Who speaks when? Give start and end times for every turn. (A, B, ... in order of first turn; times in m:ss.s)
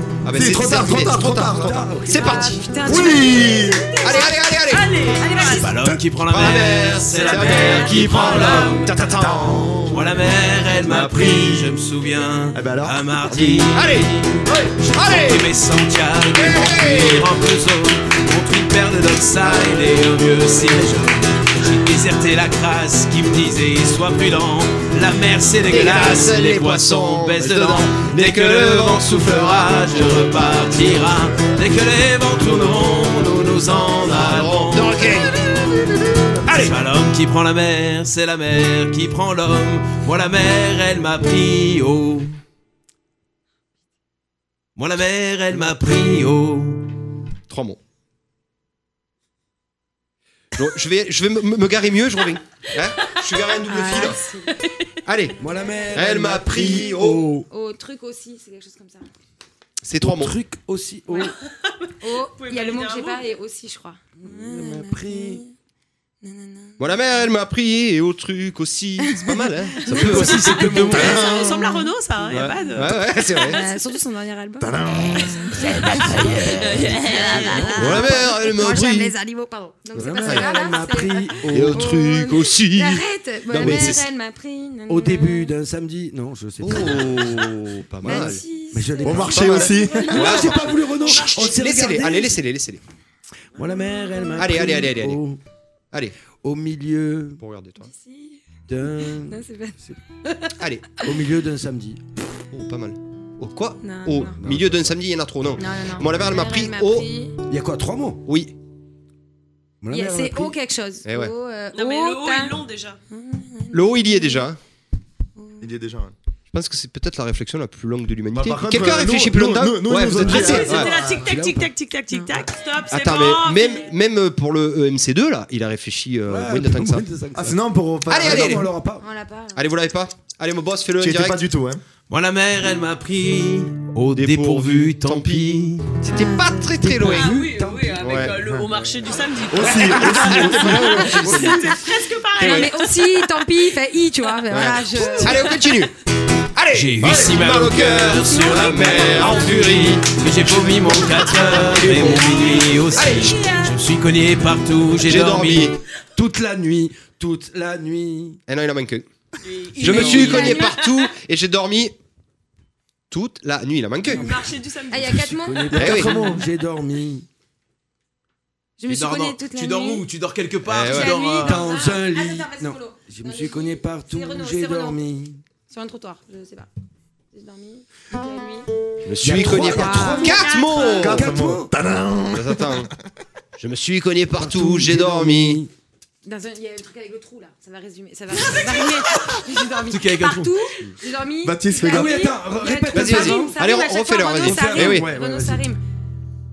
0:00.2-0:03.0 A
0:00.3-0:01.9 B
0:01.5-0:02.6 C
0:02.1-0:05.7 D
0:02.8-0:03.9 B
0:04.0-0:04.9 A
0:04.2-0:05.8 E
0:05.3-0:14.0 F
0:06.3-0:09.7 A
0:07.2-0:08.9 E
0:09.0-0:10.1 B
0:10.8-0:11.7 B
0:12.5-0:13.8 B
0:13.6-0:15.5 A
0:14.8-0:35.0 F
0:16.3-0:17.3 A
0:25.6-0:31.2 A
0:32.4-0:33.0 A
0:33.6-0:35.4 A
0:36.4-0:36.8 A
0:36.5-0:42.3 F
0:44.8-0:46.8 F
0:47.5-0:47.8 A
0:50.6-0:54.2 A
0:53.0-0:53.4 E
0:53.7-0:54.6 D
0:54.5-0:54.8 E
0:55.1-0:55.4 A
0:55.4-0:57.5 C
0:55.9-0:57.3 A
0:57.5-0:59.1 D
0:59.8-1:00.4 A
1:00.0-1:01.3 C
1:01.1-1:01.4 D
1:01.1-1:03.3 E
1:02.0-1:05.5 D
1:04.2-1:05.4 C
1:06.2-1:06.8 D
1:06.8-1:11.5 A
1:09.1-1:10.0 D
1:09.9-1:11.3 C
1:10.0-1:13.5 E
1:10.5-1:11.1 F
1:11.3-1:11.8 B
1:12.3-1:13.6 A
1:13.4-1:25.5 D
1:14.6-1:16.4 B
1:16.0-1:16.5 C
1:16.5-1:18.2 E
1:17.1-1:18.0 C
1:17.8-1:19.1 A
1:19.9-1:22.0 C
1:20.2-1:20.6 A
1:21.5-1:24.0 A
1:23.5-1:24.0 C
1:24.9-1:27.5 C
1:26.6-1:28.4 A
1:26.8-1:27.4 D
1:28.0-1:30.7 D
1:28.0-1:32.4 C
1:29.0-1:30.4 B
1:29.1-1:32.8 A
1:33.6-1:35.4 C
1:33.9-1:34.5 D
1:34.4-1:35.2 A
1:36.4-1:37.4 C
1:37.4-1:37.9 A
1:37.8-1:38.4 D
1:38.7-1:40.0 C
1:39.0-1:40.6 D
1:40.6-1:41.0 A
1:41.0-1:42.0 C
1:42.5-1:47.1 A
1:43.8-1:44.3 D
1:44.4-1:45.0 C
1:45.6-1:47.4 D
1:47.5-1:48.2 C
1:48.3-1:48.5 A
1:49.8-1:50.6 C
1:49.9-1:54.5 D
1:51.1-1:51.3 A
1:51.7-1:53.0 E
1:53.7-1:54.6 A
1:55.6-1:56.1 B
1:56.5-2:01.0 A
1:58.3-2:00.8 B
2:00.1-2:04.0 E
2:00.2-2:01.7 C
2:02.9-2:07.1 A
2:06.3-2:07.6 C
2:07.3-2:08.7 B
2:08.1-2:08.7 A
2:08.2-2:09.0 C
2:09.0-2:09.6 D
2:09.6-2:11.4 A
2:11.0-2:11.8 B
2:12.1-2:15.9 F
2:14.1-2:17.4 A
2:16.1-2:16.8 D
2:16.8-2:19.2 C
2:17.0-2:22.9 E
2:18.0-2:18.3 A
2:19.5-2:21.6 B
2:20.0-2:20.8 A
2:20.1-2:21.6 C
2:20.7-2:21.8 D
2:22.4-2:25.6 D
2:22.4-2:22.7 A
2:24.5-2:25.9 A
2:26.6-2:33.4 A
2:26.7-2:35.7 F
2:28.3-2:29.3 D
2:28.7-2:29.9 E
2:32.4-2:33.8 D
2:35.0-2:35.8 A
2:36.2-2:38.4 C
2:38.5-2:39.1 A
2:39.4-2:41.0 E
2:39.8-2:40.8 D
2:39.8-2:41.9 A
2:39.8-2:40.6 C
2:43.1-2:44.4 A
2:44.1-2:45.2 E
2:44.1-2:47.3 C
2:44.9-2:46.4 D
2:45.8-2:46.1 A
2:48.8-2:50.0 D
2:48.9-2:51.7 F
2:50.6-2:51.3 A
2:50.8-2:55.0 D
2:51.4-2:55.4 C
2:55.7-2:56.7 D
2:57.3-2:58.7 D
2:59.0-3:01.3 A
2:59.2-3:00.4 C
2:59.5-3:01.0 D
3:00.4-3:00.9 E
3:00.8-3:02.9 B
3:01.0-3:01.7 C
3:02.3-3:02.9 A
3:03.6-3:05.6 A
3:04.4-3:05.7 C
3:06.2-3:15.8 D
3:09.9-3:10.5 F
3:11.4-3:12.3 B
3:11.8-3:13.6 C
3:12.9-3:15.1 A
3:14.4-3:15.7 C